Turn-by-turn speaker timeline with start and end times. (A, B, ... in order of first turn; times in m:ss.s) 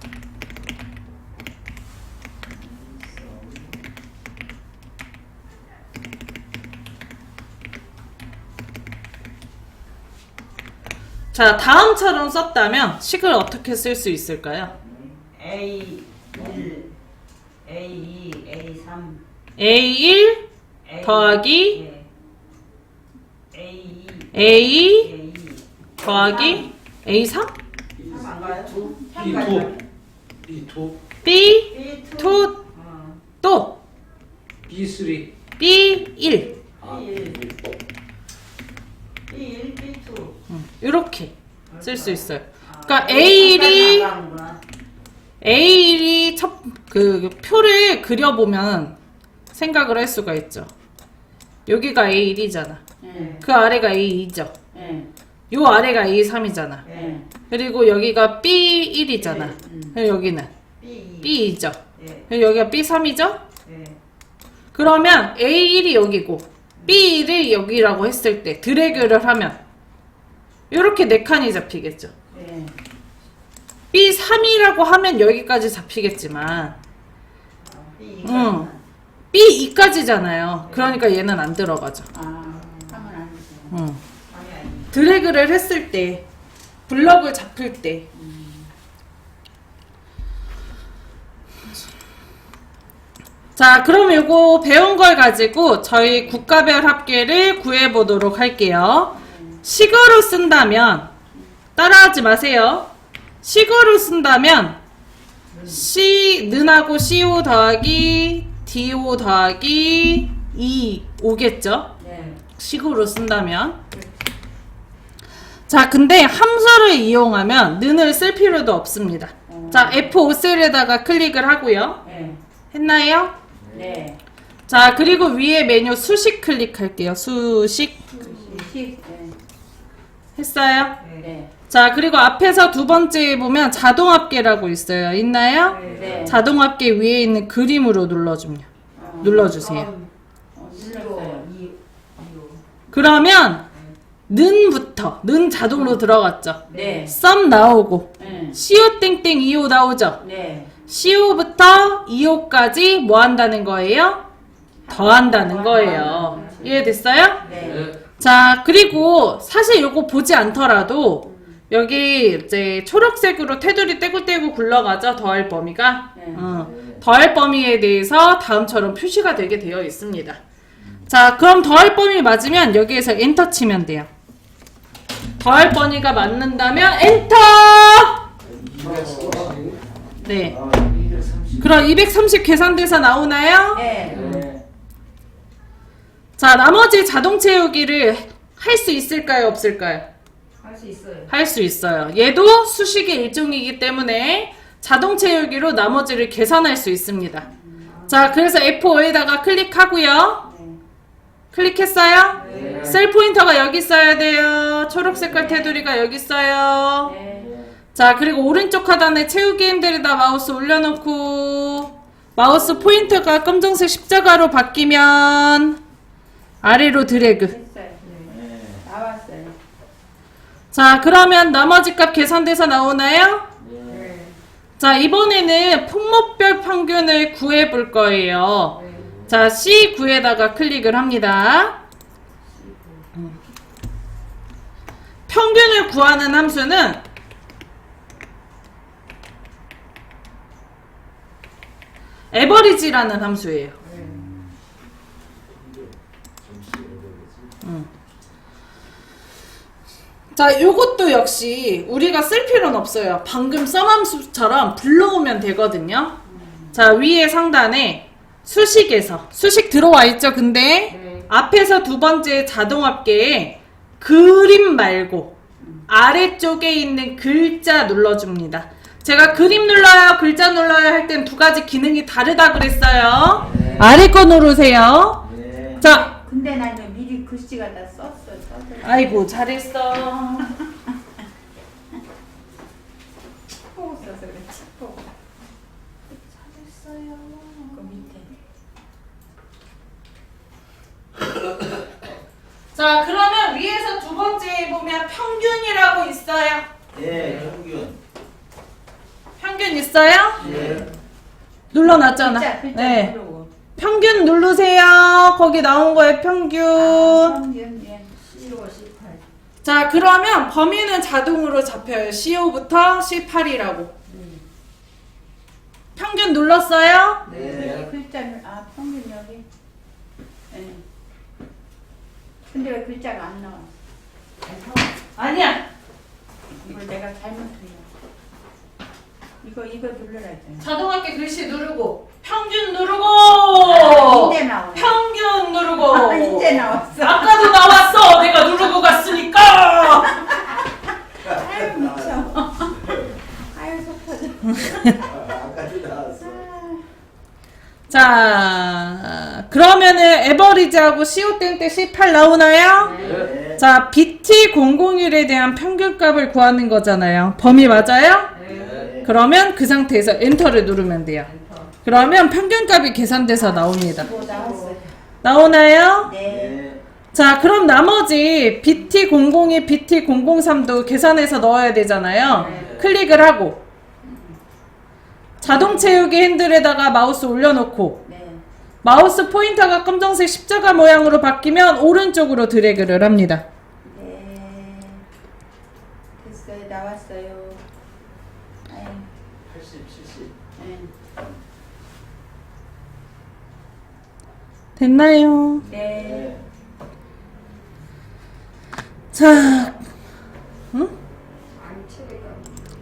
0:02.6-0:03.8 A
0:11.3-0:14.7 B
0:14.8-0:15.2 A
0:15.3-0:16.9 C
0:16.4-0:16.6 A
0:17.6-0:19.2 C
0:19.6-0:20.4 B
0:20.8-0:22.1 C
0:21.0-0:21.8 B
0:23.5-0:26.7 C
0:24.3-0:25.1 B
0:26.0-0:27.5 B
0:28.0-0:29.7 D
0:28.0-0:29.8 C
0:28.8-0:29.8 E
0:30.4-0:31.0 D
0:31.2-0:32.6 B
0:31.7-0:33.2 C
0:33.4-0:33.8 B
0:34.7-0:35.3 D
0:35.6-0:36.5 B
0:36.8-0:37.4 C
0:36.8-0:37.6 A
0:39.3-0:40.4 C
0:40.5-0:44.1 B
0:41.7-0:44.6 C
0:45.4-0:48.9 B
0:49.5-0:50.7 B
0:51.7-0:52.8 B
0:53.0-0:53.4 E
0:53.1-0:53.5 C
0:53.4-0:54.5 B
0:54.7-0:55.1 C
0:54.7-0:55.1 E
0:55.5-0:56.8 B
0:56.8-0:57.2 C
0:56.9-0:57.2 E
0:57.5-1:00.5 B
0:59.2-0:59.7 C
1:00.8-1:01.4 C
1:01.2-1:01.8 B
1:02.0-1:02.2 C
1:02.3-1:03.4 B
1:03.6-1:04.0 C
1:04.7-1:09.6 B
1:10.7-1:12.1 B
1:12.3-1:12.7 E
1:13.9-1:16.8 B
1:17.7-1:18.8 C
1:18.2-1:18.7 B
1:19.3-1:22.0 B
1:20.6-1:21.0 C
1:22.1-1:23.8 E
1:22.5-1:23.1 C
1:23.7-1:24.0 B
1:24.3-1:24.9 C
1:24.9-1:26.2 B
1:26.9-1:28.0 B
1:28.1-1:28.7 E
1:33.6-1:41.1 B
1:39.1-1:39.6 E
1:41.8-1:42.9 B
1:43.4-1:44.8 B
1:45.5-1:45.9 C
1:45.7-1:51.9 B
1:52.0-1:52.3 E
1:52.0-1:52.4 C
1:52.6-1:53.8 B
1:55.7-2:02.0 B
1:59.5-2:00.1 E
2:02.0-2:02.4 E
2:02.0-2:02.4 C
2:02.7-2:03.3 B
2:03.5-2:04.0 A
2:03.7-2:04.2 E
2:04.7-2:08.0 B
2:08.1-2:08.7 C
2:08.2-2:09.4 E
2:10.4-2:11.0 B
2:11.0-2:11.3 C
2:11.2-2:11.5 E
2:11.7-2:18.6 B
2:15.6-2:16.3 C
2:15.8-2:16.4 E
2:15.9-2:16.3 A
2:18.9-2:19.5 E
2:19.0-2:20.1 C
2:19.2-2:19.9 B
2:20.5-2:21.4 E
2:20.7-2:22.6 C
2:22.9-2:23.6 B
2:24.3-2:30.2 B
2:26.7-2:27.0 C
2:26.7-2:27.2 E
2:28.2-2:28.6 E
2:30.2-2:30.7 E
2:30.9-2:34.2 B
2:34.8-2:37.9 E
2:34.9-2:37.4 B
2:35.7-2:36.6 C
2:37.4-2:37.8 A
2:37.5-2:38.0 D
2:38.2-2:50.4 B
2:41.2-2:41.6 E
2:46.1-2:46.5 E
2:46.4-2:47.1 A
2:50.8-2:51.1 A
2:51.1-2:54.1 B
2:55.4-2:58.2 B
2:58.4-2:59.8 A
2:58.7-2:59.8 D
3:00.2-3:00.6 B
3:00.3-3:01.7 A
3:01.6-3:03.8 B
3:03.7-3:04.4 E
3:03.7-3:04.4 C
3:04.0-3:04.6 A
3:06.4-3:10.0 B
3:10.6-3:11.3 C
3:11.3-3:17.4 B
3:17.4-3:17.9 E
3:17.9-3:18.3 C
3:18.1-3:20.4 B
3:20.4-3:20.8 E
3:21.5-3:27.2 B
3:22.3-3:23.0 C
3:22.4-3:23.0 A
3:24.9-3:25.6 A
3:25.3-3:25.8 E
3:27.0-3:27.5 E
3:27.3-3:27.7 A
3:27.9-3:35.8 B
3:32.4-3:33.2 A
3:36.6-3:37.5 B
3:37.2-3:38.0 E
3:38.0-3:38.3 C
3:38.3-3:38.8 A
3:38.8-3:39.5 E
3:40.7-3:43.5 B
3:43.6-3:44.1 A
3:43.9-3:44.4 C
3:44.8-3:51.8 B
3:48.7-3:49.1 C
3:49.0-3:49.5 A
3:52.5-3:53.0 C
3:55.3-3:57.0 B
4:02.3-4:03.8 B
4:03.8-4:04.2 C
4:03.9-4:04.6 A
4:05.5-4:07.6 A
4:07.6-4:07.9 B
4:10.3-4:16.2 B
4:16.2-4:16.8 E
4:16.7-4:25.3 B
4:20.9-4:21.3 C
4:25.9-4:35.2 B
4:33.4-4:34.0 A
4:35.2-4:35.8 A
4:35.8-4:36.1 B
4:35.8-4:39.5 E
4:38.8-4:40.5 B
4:40.4-4:40.9 E
4:43.7-4:45.1 E
4:46.3-4:47.9 B
4:47.7-4:48.3 E
4:52.7-4:56.7 B
4:56.9-4:58.0 A
4:57.1-4:57.4 C
4:59.4-5:00.7 B
5:00.4-5:00.9 A
5:00.4-5:00.9 C
5:01.7-5:03.1 B
5:02.0-5:03.5 E
5:03.8-5:07.4 B
5:06.7-5:08.1 E
5:08.2-5:09.2 C
5:09.6-5:13.9 B
5:14.1-5:14.4 C
5:16.0-5:17.2 B
5:17.3-5:17.7 C
5:17.3-5:17.9 A
5:17.5-5:19.4 E
5:20.5-5:20.8 E
5:22.5-5:23.7 E
5:24.4-5:24.9 C
5:25.2-5:25.6 B
5:26.6-5:27.9 E
5:29.4-5:30.7 E
5:30.6-5:40.5 B
5:33.6-5:35.0 E
5:35.8-5:37.8 E
5:40.2-5:40.5 E
5:41.2-5:43.1 A
5:41.2-5:42.8 E
5:43.5-5:45.0 E
5:44.5-5:44.9 B
5:45.0-5:46.5 A
5:46.2-5:46.8 E
5:47.9-5:53.0 B
5:52.8-5:53.3 C
5:53.0-5:53.6 A
5:53.6-5:58.3 B
5:58.3-5:58.9 C
5:58.4-5:59.1 A
5:59.0-6:01.3 B
6:01.2-6:01.7 C
6:01.8-6:04.1 B
6:03.3-6:04.9 E
6:03.9-6:04.8 C
6:05.2-6:06.1 B
6:06.0-6:06.6 E
6:06.2-6:06.8 A
6:07.1-6:13.6 B
6:12.3-6:12.8 C
6:12.4-6:12.9 A
6:14.0-6:14.4 E
6:15.4-6:18.0 B
6:15.4-6:16.1 E
6:18.0-6:18.4 E
6:18.8-6:23.4 B
6:23.8-6:25.0 E
6:26.2-6:27.6 E
6:28.7-6:29.1 E
6:29.4-6:30.4 A
6:30.6-6:30.9 E
6:34.8-6:35.6 B
6:35.6-6:36.5 A
6:35.6-6:36.3 E
6:39.1-6:39.8 B
6:41.5-6:42.4 C